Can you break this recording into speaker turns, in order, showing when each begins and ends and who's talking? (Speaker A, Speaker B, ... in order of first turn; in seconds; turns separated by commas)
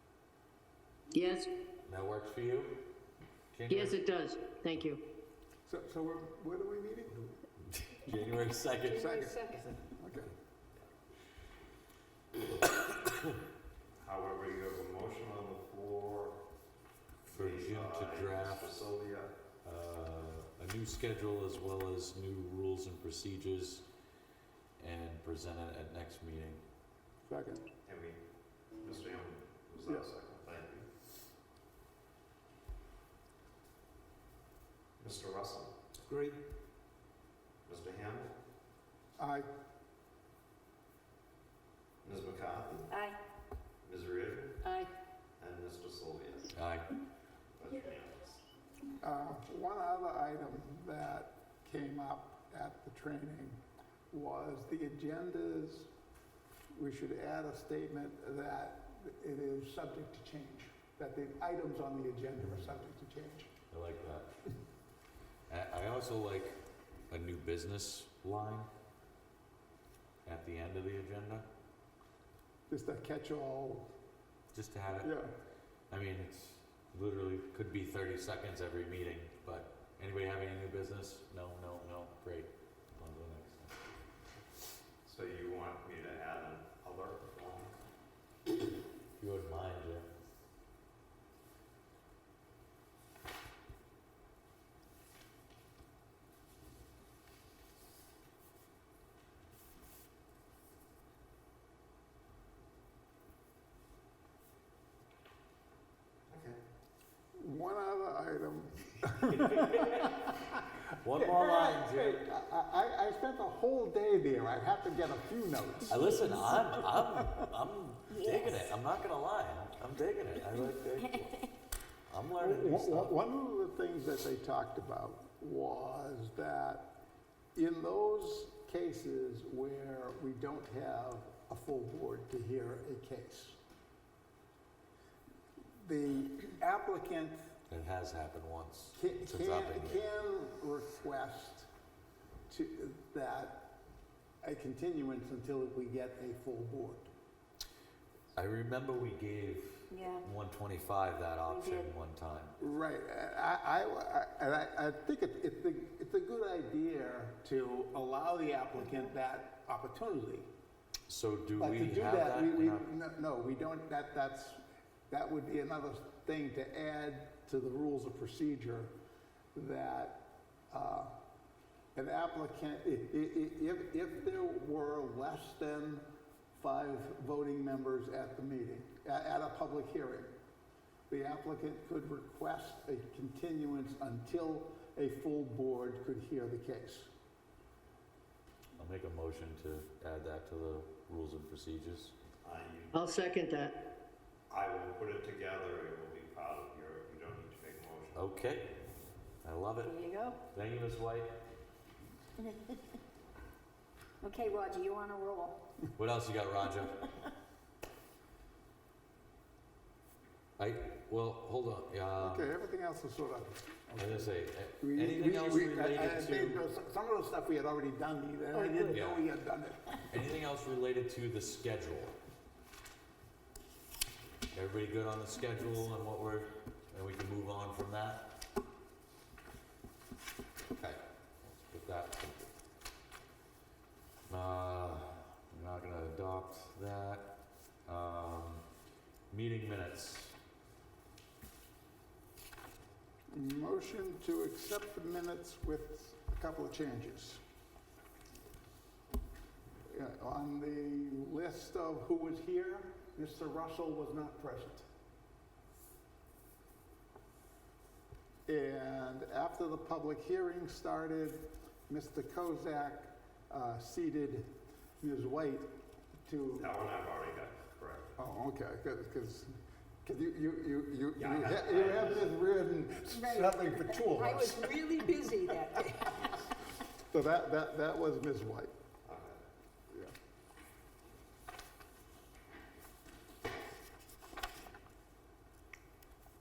Speaker A: 1.1-1.5, Speaker B: 1.8-2.9, Speaker B: 3.5-4.0, Speaker A: 3.7-5.0, Speaker C: 5.7-7.3, Speaker B: 7.7-9.2, Speaker D: 8.9-9.7, Speaker C: 8.9-10.3, Speaker B: 12.9-13.2, Speaker E: 14.0-16.4, Speaker E: 17.2-19.3, Speaker B: 17.3-18.8, Speaker B: 19.6-23.8, Speaker B: 24.8-26.6, Speaker C: 27.3-27.6, Speaker E: 27.9-28.2, Speaker E: 28.8-30.9, Speaker E: 35.0-35.8, Speaker E: 37.6-38.3, Speaker C: 39.2-39.5, Speaker E: 42.0-42.9, Speaker D: 42.9-43.2, Speaker E: 43.8-44.7, Speaker E: 45.4-46.5, Speaker B: 46.5-46.9, Speaker E: 47.6-48.4, Speaker C: 49.0-53.6, Speaker C: 54.1-55.9, Speaker C: 56.7-63.5, Speaker B: 63.7-64.3, Speaker B: 65.5-66.5, Speaker B: 67.1-68.7, Speaker B: 70.2-71.5, Speaker C: 72.7-73.9, Speaker B: 74.5-75.2, Speaker C: 75.0-75.3, Speaker B: 75.9-83.8, Speaker E: 85.0-87.8, Speaker B: 89.2-90.1, Speaker E: 106.3-106.6, Speaker C: 107.4-110.3, Speaker B: 109.2-110.4, Speaker B: 111.0-112.3, Speaker C: 111.1-117.5, Speaker B: 115.9-121.5, Speaker B: 122.1-123.2, Speaker C: 122.4-127.0, Speaker C: 127.5-133.6, Speaker C: 135.8-137.4, Speaker B: 137.7-140.1, Speaker C: 138.9-141.7, Speaker C: 142.5-143.8, Speaker C: 144.4-147.1, Speaker B: 148.3-152.6, Speaker A: 149.9-150.2, Speaker A: 151.5-151.9, Speaker C: 152.6-160.5, Speaker B: 161.1-162.9, Speaker C: 161.5-168.9, Speaker C: 169.5-171.1, Speaker C: 171.9-180.3, Speaker C: 181.1-187.1, Speaker B: 188.8-192.1, Speaker E: 192.4-193.0, Speaker A: 192.9-193.8, Speaker E: 194.5-198.2, Speaker B: 198.1-198.7, Speaker B: 199.4-201.4, Speaker A: 199.8-200.4, Speaker D: 204.2-205.6, Speaker B: 205.9-207.1, Speaker B: 210.6-212.5, Speaker C: 212.2-220.0, Speaker B: 214.0-216.6, Speaker D: 218.5-219.0, Speaker B: 218.9-219.3, Speaker B: 220.1-222.2, Speaker B: 224.5-228.4, Speaker B: 230.7-232.5, Speaker B: 234.3-238.6, Speaker B: 239.3-240.3, Speaker C: 243.3-247.4, Speaker C: 249.9-254.9, Speaker C: 258.5-265.7, Speaker C: 266.2-266.7, Speaker E: 266.6-268.1, Speaker C: 268.2-269.5, Speaker C: 270.0-275.4, Speaker E: 271.2-272.4, Speaker D: 273.1-276.4, Speaker C: 277.1-278.7, Speaker E: 279.0-279.4